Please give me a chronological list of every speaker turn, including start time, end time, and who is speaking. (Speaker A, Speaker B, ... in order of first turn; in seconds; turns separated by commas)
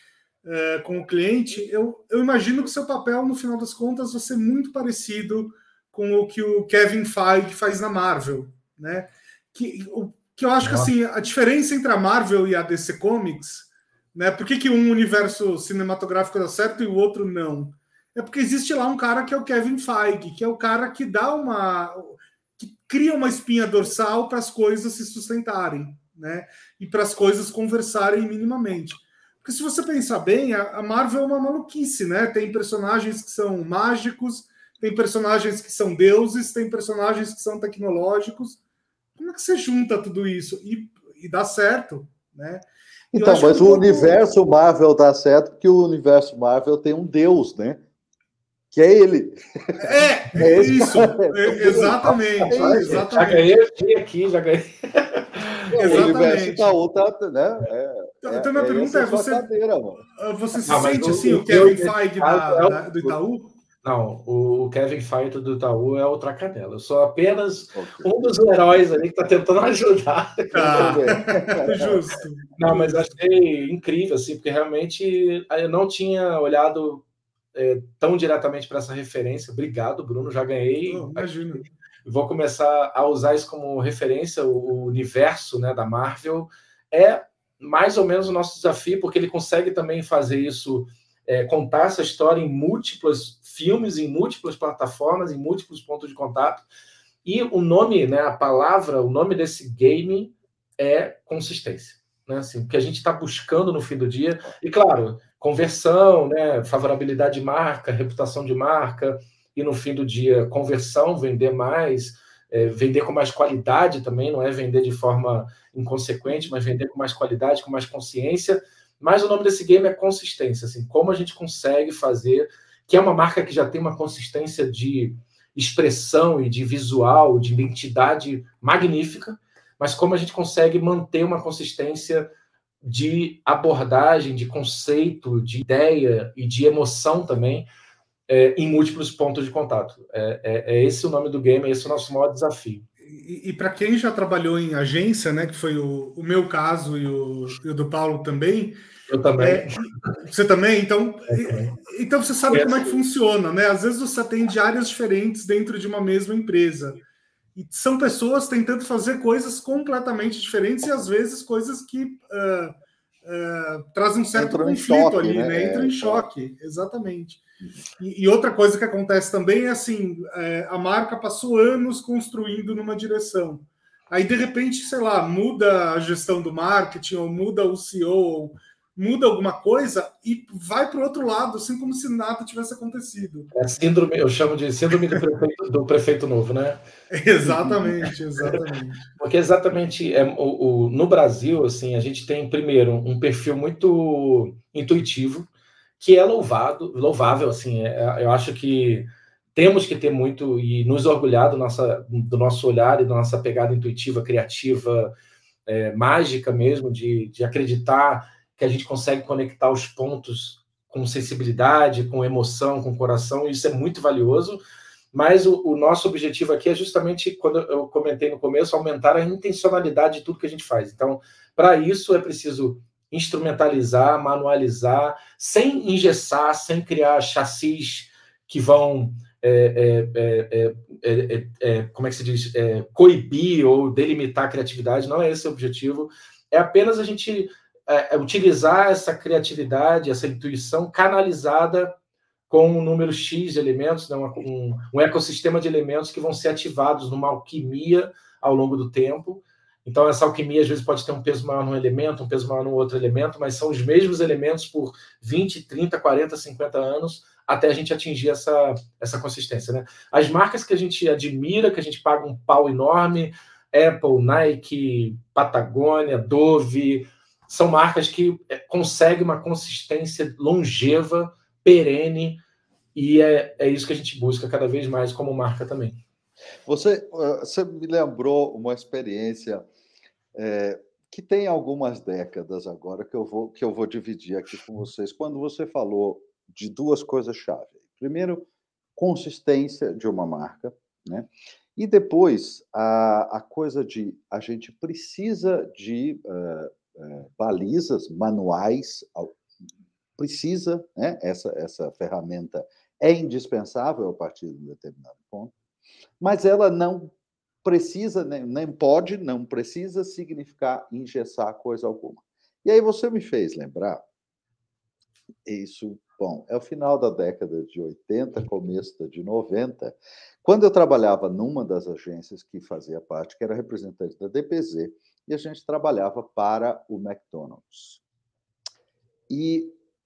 Speaker A: 0.4-38.6, Speaker B: 10.6-10.9, Speaker A: 39.2-44.2, Speaker C: 43.1-47.8, Speaker C: 48.7-53.0, Speaker A: 49.8-53.5, Speaker B: 52.5-56.0, Speaker A: 55.7-56.8, Speaker C: 55.7-60.0, Speaker A: 58.2-59.5, Speaker A: 60.1-63.5, Speaker B: 60.7-63.1, Speaker B: 63.8-71.0, Speaker C: 67.7-68.1, Speaker C: 70.5-72.2, Speaker A: 70.5-73.2, Speaker B: 72.6-81.3, Speaker A: 80.9-81.7, Speaker B: 82.0-96.7, Speaker B: 97.2-132.3, Speaker B: 132.8-137.7, Speaker B: 138.3-142.8, Speaker A: 143.1-148.8, Speaker B: 149.1-149.8, Speaker A: 149.4-157.0, Speaker B: 151.3-151.7, Speaker B: 152.5-153.0, Speaker A: 157.6-167.4, Speaker C: 164.3-166.3, Speaker A: 168.0-183.5, Speaker B: 183.5-186.8, Speaker A: 187.1-189.1, Speaker B: 187.4-188.6, Speaker B: 189.2-195.5, Speaker B: 196.0-205.1, Speaker B: 205.7-214.6, Speaker B: 215.1-241.9, Speaker B: 242.5-272.4, Speaker B: 272.9-276.0, Speaker C: 276.7-279.7, Speaker C: 280.4-299.4, Speaker C: 300.2-305.5, Speaker C: 306.2-314.1, Speaker C: 315.4-328.0, Speaker C: 329.3-329.8